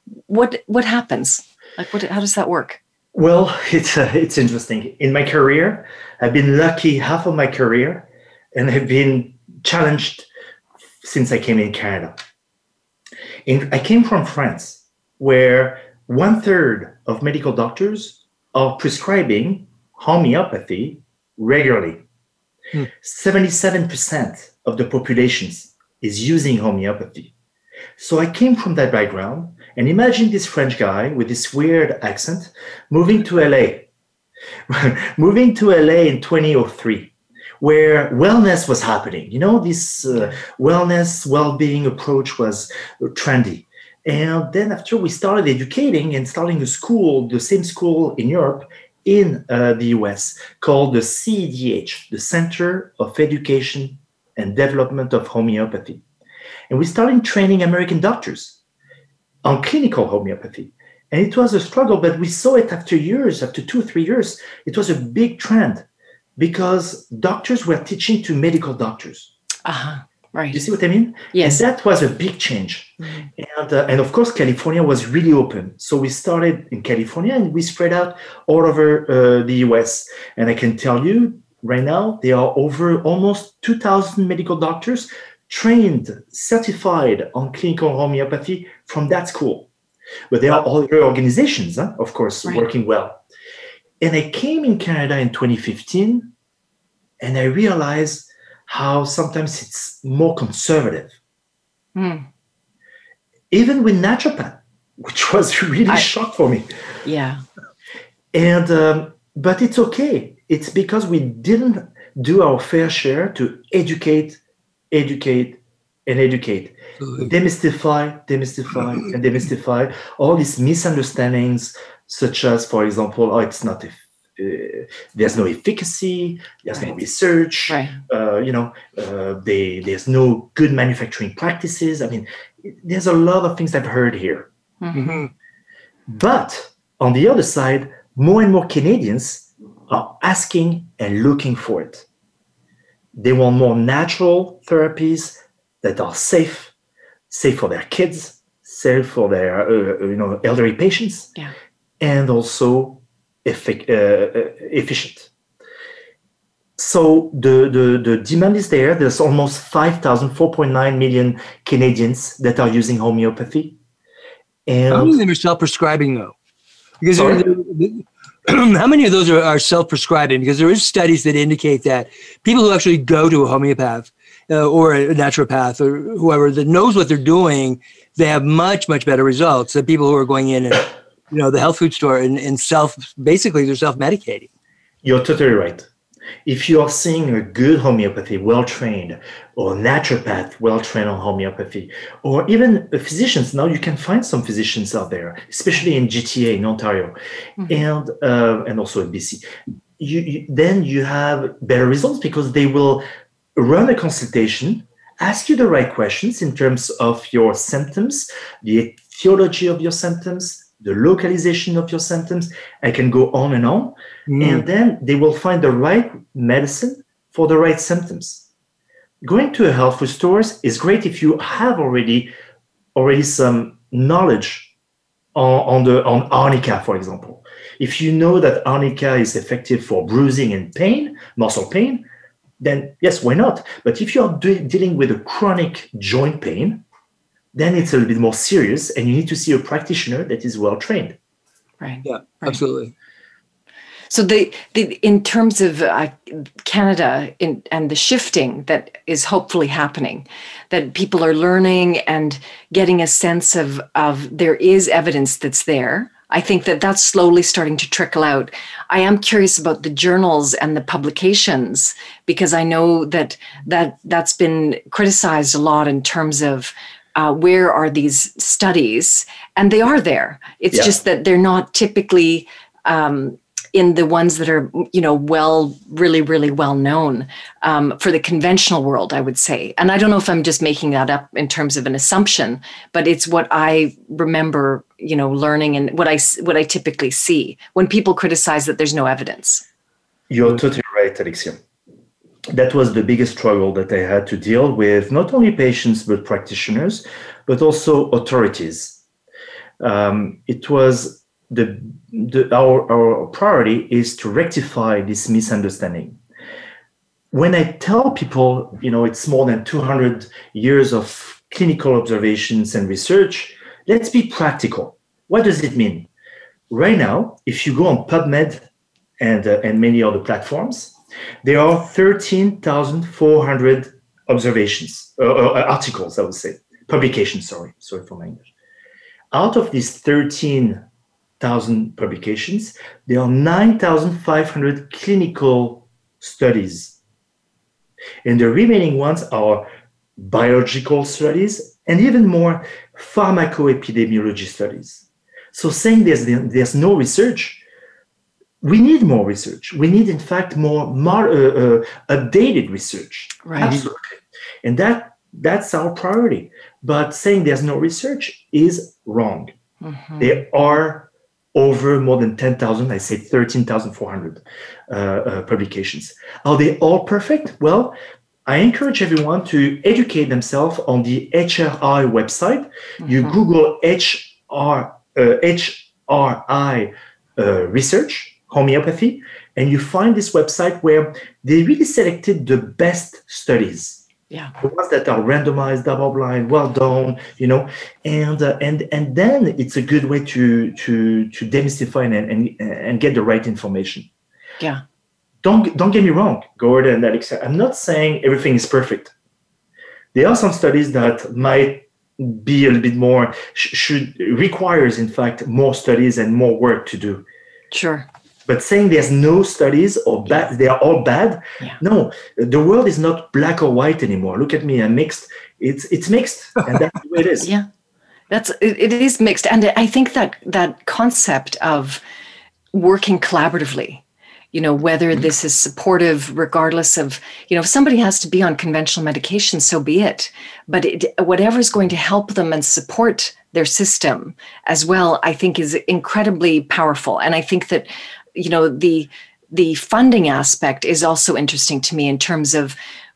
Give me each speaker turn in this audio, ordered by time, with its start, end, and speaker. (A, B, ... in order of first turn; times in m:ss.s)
0:00.3-0:02.8 A
0:03.1-0:10.3 B
0:11.0-0:12.2 B
0:13.4-0:22.0 B
0:22.9-0:27.3 B
0:28.0-0:33.9 B
0:34.7-0:56.0 B
0:56.7-0:58.6 B
0:59.4-1:05.8 B
1:06.4-1:09.3 B
1:09.6-1:10.6 A
1:10.5-1:29.7 B
1:11.3-1:11.6 A
1:13.0-1:13.3 A
1:30.3-1:33.2 B
1:34.0-1:36.3 B
1:37.2-1:41.1 B
1:41.9-1:42.2 A
1:43.5-1:46.7 B
1:47.0-1:47.4 A
1:48.3-1:54.4 B
1:54.9-2:14.5 B
1:57.0-1:57.3 C
2:07.7-2:08.0 A
2:14.8-2:15.2 A
2:14.9-2:15.3 C
2:16.1-2:22.0 B
2:23.1-2:26.7 B
2:27.3-2:31.3 B
2:32.0-2:35.3 B
2:36.8-2:43.8 B
2:44.6-2:45.2 B
2:44.9-2:46.3 C
2:47.0-3:04.5 C
2:47.1-2:47.4 B
3:05.0-3:05.8 B
3:06.4-3:17.1 B
3:17.7-3:19.4 B
3:20.0-3:23.0 B
3:23.5-3:38.4 B
3:34.3-3:34.6 C
3:39.2-3:42.3 B
3:42.9-3:44.7 B
3:45.3-3:52.1 B
3:52.6-3:56.8 B
3:57.5-4:01.2 B
4:01.8-4:02.6 A
4:02.0-4:02.9 C
4:04.1-4:49.6 A
4:50.3-4:51.6 B
4:52.5-4:59.0 B
4:59.8-5:06.2 B
5:07.3-5:16.1 B
5:16.7-5:18.6 B
5:19.2-5:28.5 B
5:29.3-5:30.8 B
5:31.4-5:37.0 B
5:38.2-5:47.6 B
5:48.6-5:59.5 B
5:53.4-5:53.7 A
5:53.6-5:53.9 C
5:59.8-6:00.4 A
6:00.2-6:24.0 B
6:13.0-6:13.3 A
6:24.6-6:34.1 B
6:35.4-6:39.1 B
6:40.1-6:47.2 B
6:47.7-6:48.1 A
6:48.4-6:57.5 B
6:57.4-6:57.7 A
6:58.3-7:02.0 A
7:02.7-7:04.0 A
7:04.5-7:22.8 A